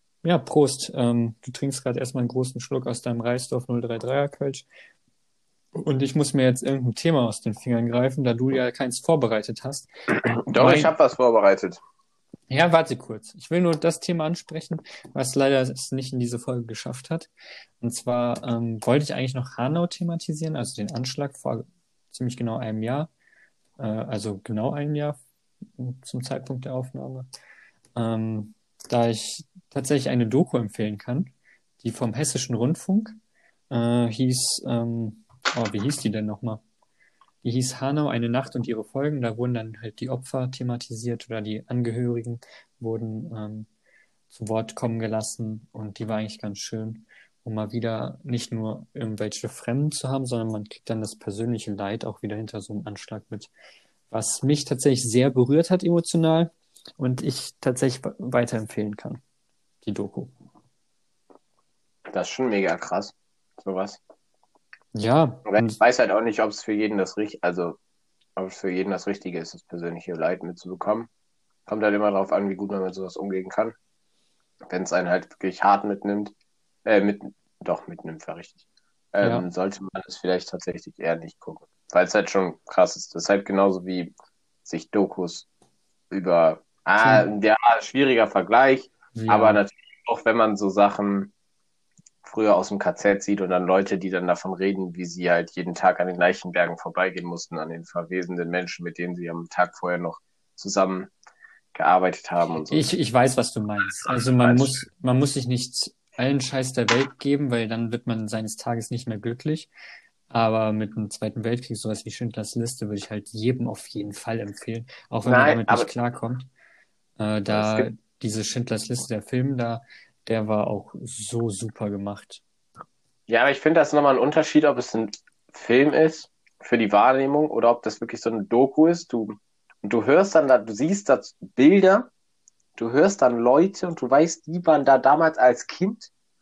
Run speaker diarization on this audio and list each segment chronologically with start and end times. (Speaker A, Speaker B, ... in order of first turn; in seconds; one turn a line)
Speaker A: 0.2-4.7
Speaker A: 5.8-10.9
Speaker B: 10.5-11.8
Speaker A: 12.5-23.1
Speaker A: 23.8-25.2
Speaker A: 25.8-27.3
Speaker A: 28.0-33.2
Speaker A: 33.7-36.6
Speaker A: 37.4-43.7
Speaker A: 44.3-53.5
Speaker A: 54.1-59.2
Speaker A: 59.8-60.3
Speaker B: 62.1-64.0
Speaker A: 64.9-65.8
Speaker B: 65.5-67.8
Speaker B: 68.4-71.1
Speaker B: 71.7-73.8
Speaker B: 74.7-76.3
Speaker B: 76.8-78.6
Speaker B: 79.1-84.1
Speaker B: 84.7-85.5
Speaker B: 86.1-91.3
Speaker A: 87.0-87.3
Speaker A: 89.1-89.6
Speaker B: 92.2-101.1
Speaker B: 101.7-102.9
Speaker A: 102.7-109.7
Speaker B: 104.4-104.8
Speaker A: 110.3-116.5
Speaker B: 115.3-115.9
Speaker A: 117.2-122.4
Speaker B: 117.5-117.9
Speaker B: 123.3-132.1
Speaker B: 132.8-136.1